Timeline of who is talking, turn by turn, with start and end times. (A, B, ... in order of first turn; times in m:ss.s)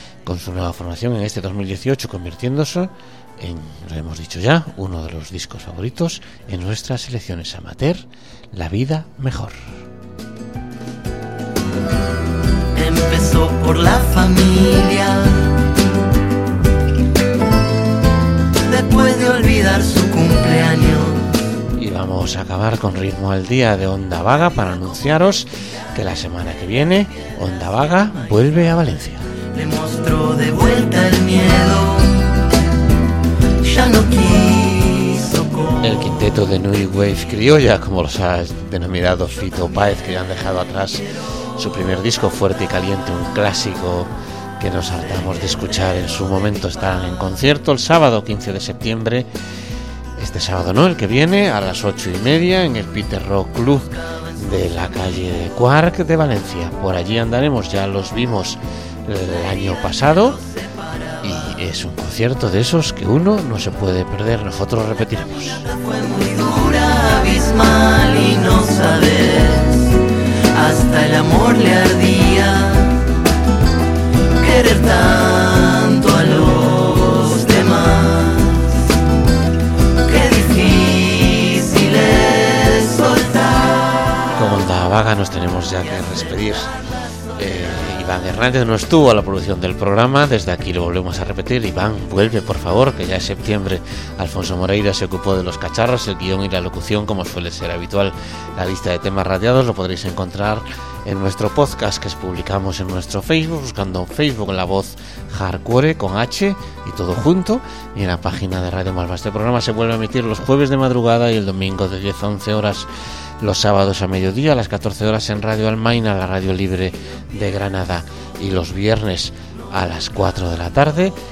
0:00.2-0:09.6 A
0:12.7-0:15.4 B
0:18.6-0:21.2 B
0:21.8-0:29.2 A
0:29.5-0:32.2 B
0:33.6-0:35.8 B
0:35.8-0:49.3 A
0:50.2-1:00.4 A
1:01.2-1:05.7 A
1:05.6-1:09.9 B
1:10.5-1:13.0 B
1:14.4-1:18.7 B
1:20.0-1:24.2 B
1:24.3-1:26.7 A
1:27.4-1:52.9 A
1:53.4-2:01.2 A